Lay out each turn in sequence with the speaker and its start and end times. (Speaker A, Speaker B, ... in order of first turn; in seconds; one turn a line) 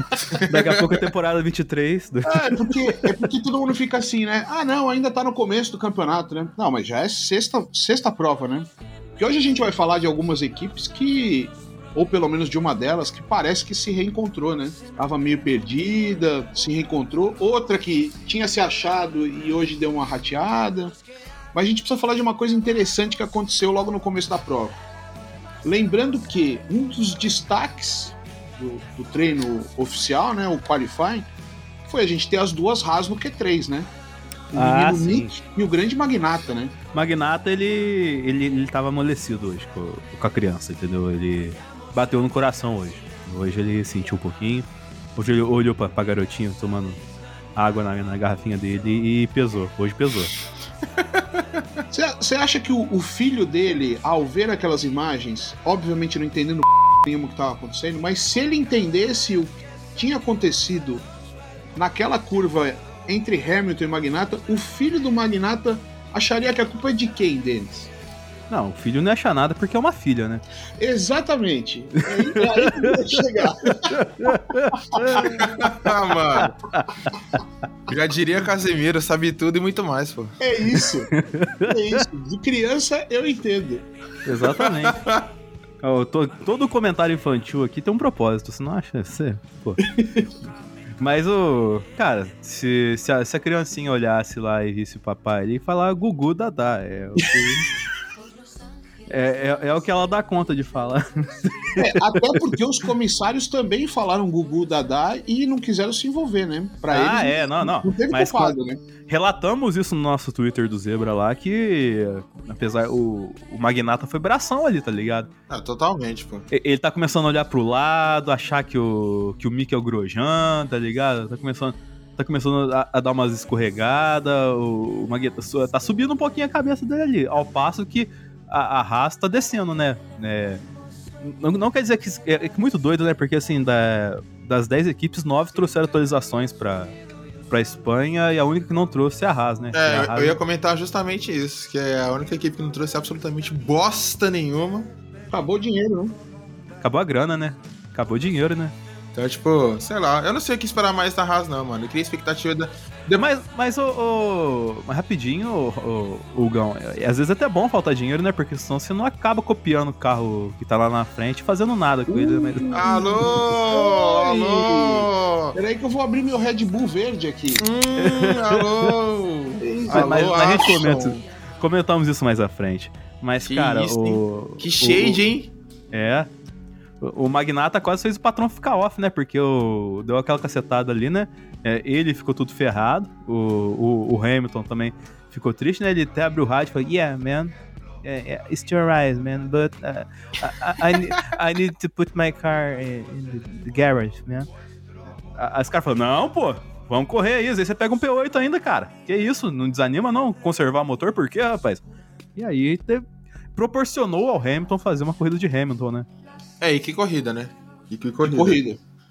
Speaker A: 0.3-1.0
Speaker B: 0.5-3.0
Speaker C: 2.3-20.9
Speaker C: 21.5-24.8
Speaker C: 25.6-31.3
Speaker C: 31.9-33.9
Speaker C: 34.5-36.7
Speaker B: 34.5-35.3
Speaker B: 36.9-47.0
Speaker B: 47.5-50.3
Speaker C: 51.9-61.0
Speaker C: 61.8-67.9
Speaker B: 68.5-70.4
Speaker C: 70.8-74.4
Speaker B: 72.3-73.0
Speaker B: 73.9-75.9
Speaker C: 74.9-75.5
Speaker A: 75.3-76.5
Speaker B: 76.4-77.1
Speaker A: 77.9-80.3
Speaker C: 80.4-81.1
Speaker B: 81.1-81.7
Speaker C: 81.6-83.8
Speaker B: 84.2-85.0
Speaker A: 84.5-85.3
Speaker B: 85.8-89.8
Speaker C: 89.8-90.3
Speaker B: 91.0-97.6
Speaker B: 99.1-102.4
Speaker C: 101.8-108.8
Speaker B: 106.9-115.3
Speaker A: 115.5-116.5
Speaker B: 116.5-130.6
Speaker B: 131.2-136.9
Speaker B: 137.5-140.4
Speaker A: 139.7-144.9
Speaker C: 145.3-146.2
Speaker B: 146.8-148.7
Speaker A: 149.1-152.7
Speaker B: 153.1-162.6
Speaker C: 162.1-167.6
Speaker A: 162.7-165.5
Speaker A: 167.6-171.2
Speaker B: 168.0-168.9
Speaker C: 169.6-170.7
Speaker B: 169.9-175.2
Speaker A: 173.4-175.5
Speaker B: 175.9-176.3
Speaker B: 177.0-194.5
Speaker B: 195.3-201.8
Speaker B: 202.3-206.1
Speaker A: 206.6-208.6
Speaker C: 208.2-208.8